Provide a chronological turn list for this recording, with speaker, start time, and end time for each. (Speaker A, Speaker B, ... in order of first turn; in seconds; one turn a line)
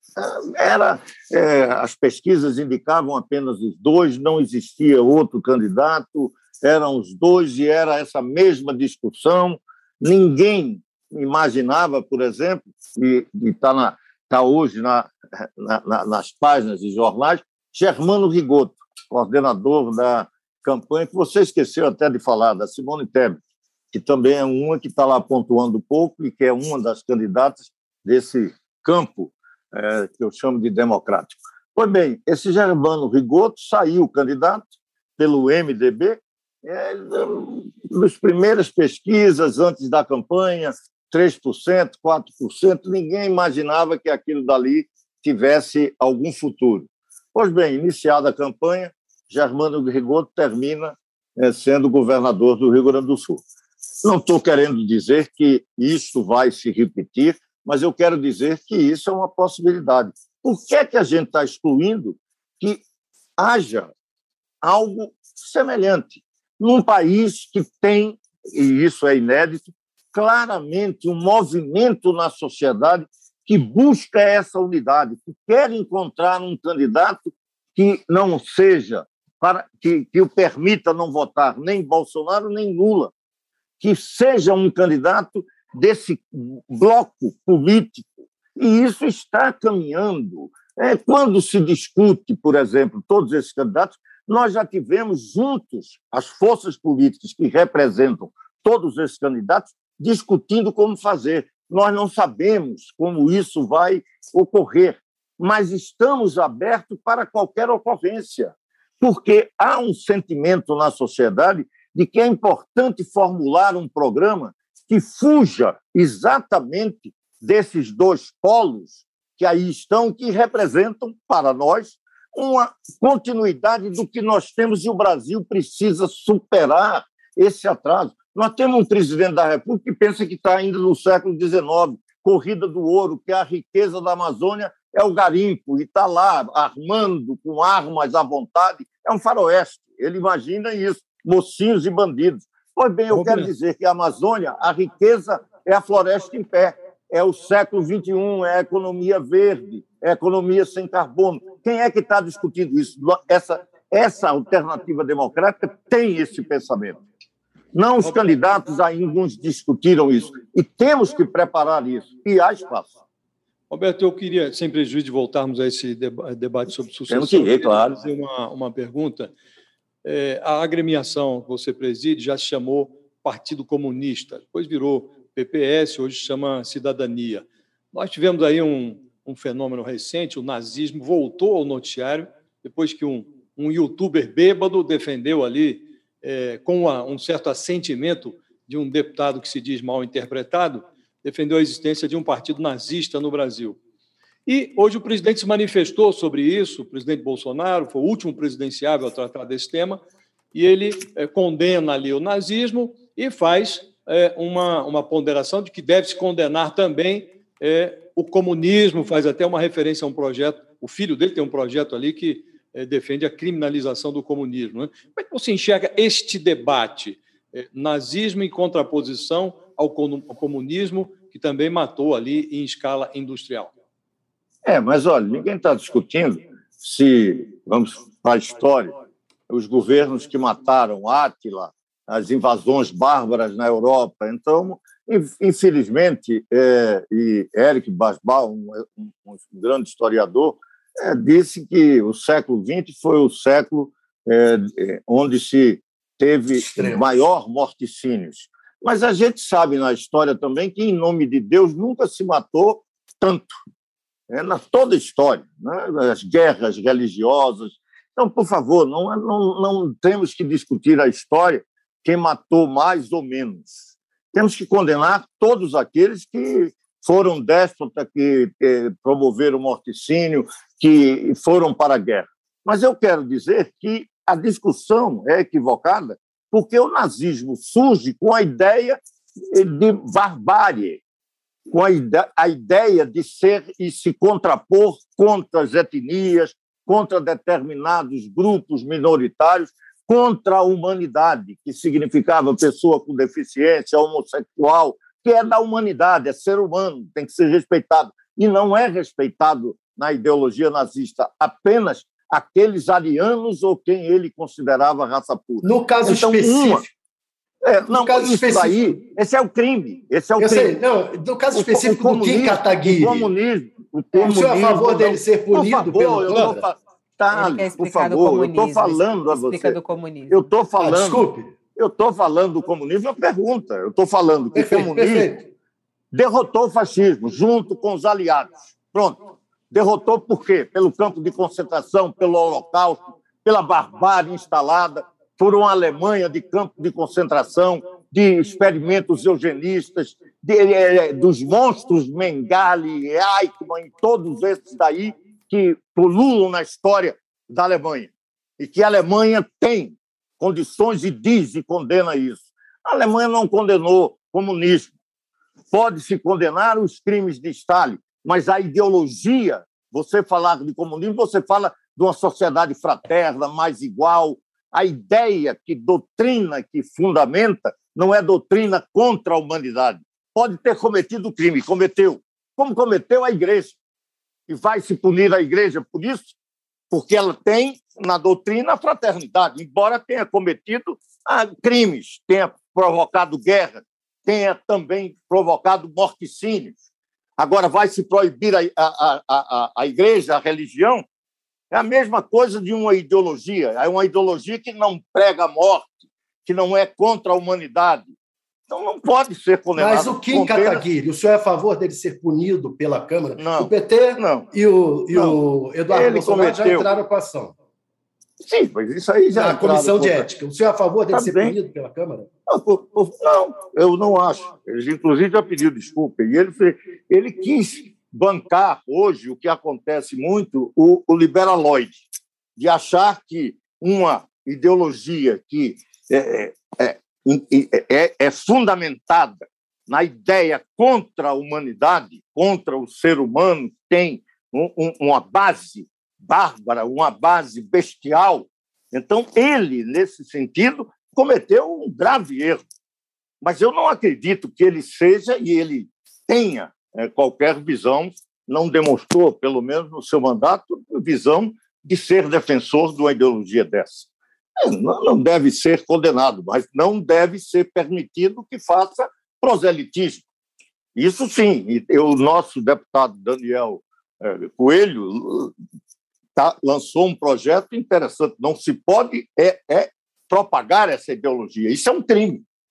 Speaker A: 0.2-23.4
Speaker A: 23.9-53.4
Speaker A: 54.0-62.8
Speaker A: 63.4-63.9
Speaker A: 64.6-83.1
Speaker A: 83.8-157.0
Speaker B: 143.1-143.5
Speaker A: 157.7-162.9
Speaker B: 158.0-158.3
Speaker B: 163.7-169.3
Speaker A: 167.1-168.0
Speaker B: 170.0-193.8
Speaker B: 194.4-200.0
Speaker B: 200.5-223.7
Speaker A: 224.6-228.9
Speaker A: 229.5-253.5
Speaker C: 246.6-247.1
Speaker A: 254.3-263.8
Speaker A: 264.3-279.0
Speaker A: 279.5-281.0
Speaker A: 281.7-306.8
Speaker C: 305.6-306.9
Speaker A: 307.6-310.8
Speaker C: 307.9-309.0
Speaker C: 310.4-313.3
Speaker A: 311.5-319.8
Speaker C: 314.2-316.6
Speaker B: 316.3-316.5
Speaker D: 317.3-320.5
Speaker A: 320.3-325.3
Speaker C: 320.8-321.5
Speaker C: 324.6-325.5
Speaker A: 326.1-329.2
Speaker A: 329.7-354.9
Speaker A: 355.7-373.8
Speaker A: 374.5-376.4
Speaker A: 376.9-386.7
Speaker A: 387.4-391.0
Speaker A: 391.7-398.1
Speaker A: 398.7-400.9
Speaker C: 399.8-407.5
Speaker A: 403.4-404.5
Speaker A: 405.1-406.9
Speaker A: 408.4-410.3
Speaker C: 409.3-412.3
Speaker A: 411.1-411.6
Speaker A: 412.5-422.0
Speaker A: 422.6-442.6
Speaker A: 443.4-454.1
Speaker A: 454.6-460.2
Speaker A: 460.9-465.5
Speaker A: 466.4-472.4